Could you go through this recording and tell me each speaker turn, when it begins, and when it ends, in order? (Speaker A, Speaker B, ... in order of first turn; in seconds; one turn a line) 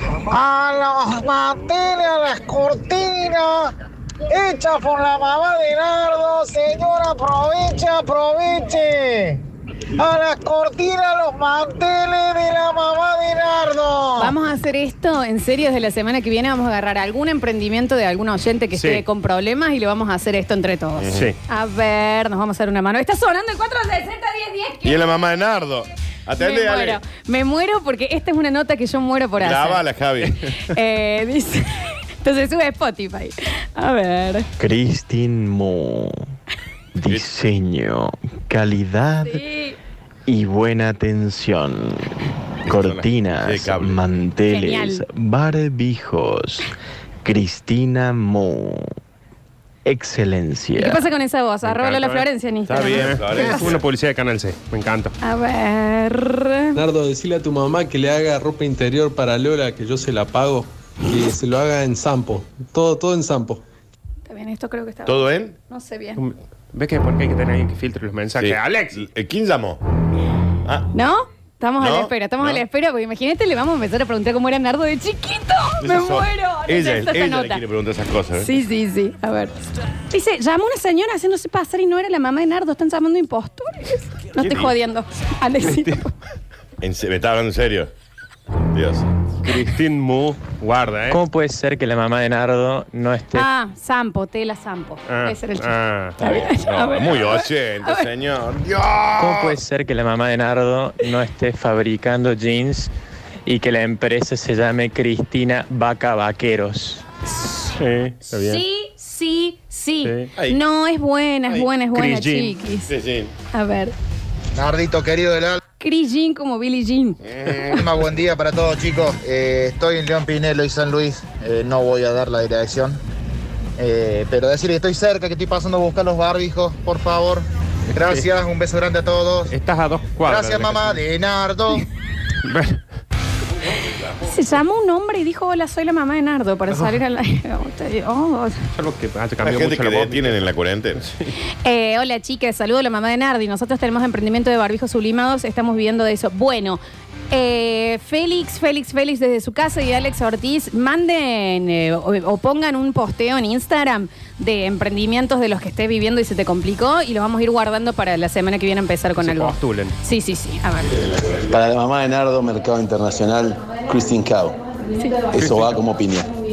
Speaker A: 0.3-3.7
Speaker A: 4.3-9.4
Speaker A: 10.0-14.3
Speaker B: 14.2-25.3
Speaker C: 18.7-19.1
Speaker D: 21.0-21.3
Speaker C: 21.1-21.4
Speaker D: 24.8-27.0
Speaker B: 26.4-31.7
Speaker D: 29.4-30.5
Speaker B: 32.2-34.5
Speaker E: 34.6-36.2
Speaker E: 37.0-39.4
Speaker D: 37.0-37.4
Speaker B: 39.2-39.8
Speaker E: 40.3-46.7
Speaker D: 42.7-44.1
Speaker B: 44.5-45.1
Speaker E: 47.2-48.9
Speaker E: 49.9-51.0
Speaker B: 50.8-53.8
Speaker C: 51.6-52.3
Speaker D: 52.7-53.8
Speaker C: 52.9-55.1
Speaker B: 55.2-56.8
Speaker F: 56.8-63.6
Speaker B: 64.3-66.2
Speaker D: 65.1-65.5
Speaker C: 66.2-69.1
Speaker D: 68.4-69.8
Speaker B: 70.9-77.7
Speaker D: 71.8-72.6
Speaker D: 75.8-78.5
Speaker B: 78.3-79.5
Speaker B: 80.1-86.1
Speaker D: 84.4-84.7
Speaker D: 86.8-87.9
Speaker D: 88.7-89.1
Speaker C: 89.4-91.2
Speaker G: 91.1-93.5
Speaker B: 93.3-98.1
Speaker C: 95.1-96.3
Speaker D: 96.2-99.6
Speaker G: 99.2-102.9
Speaker G: 103.5-107.0
Speaker C: 107.8-108.6
Speaker B: 108.4-112.9
Speaker C: 110.0-110.3
Speaker D: 110.4-110.6
Speaker C: 111.9-112.5
Speaker D: 112.9-113.3
Speaker B: 113.5-113.9
Speaker A: 114.5-115.6
Speaker B: 115.8-117.8
Speaker D: 117.3-117.8
Speaker A: 117.8-123.0
Speaker A: 123.8-129.5
Speaker C: 127.9-128.3
Speaker C: 129.5-131.0
Speaker A: 130.2-131.8
Speaker C: 132.4-132.8
Speaker B: 134.2-138.6
Speaker C: 138.8-140.5
Speaker D: 139.4-141.1
Speaker C: 141.0-141.3
Speaker B: 141.6-146.8
Speaker B: 147.3-161.0
Speaker C: 159.2-159.9
Speaker H: 161.5-164.6
Speaker B: 164.9-165.3
Speaker H: 165.3-166.3
Speaker C: 165.4-165.7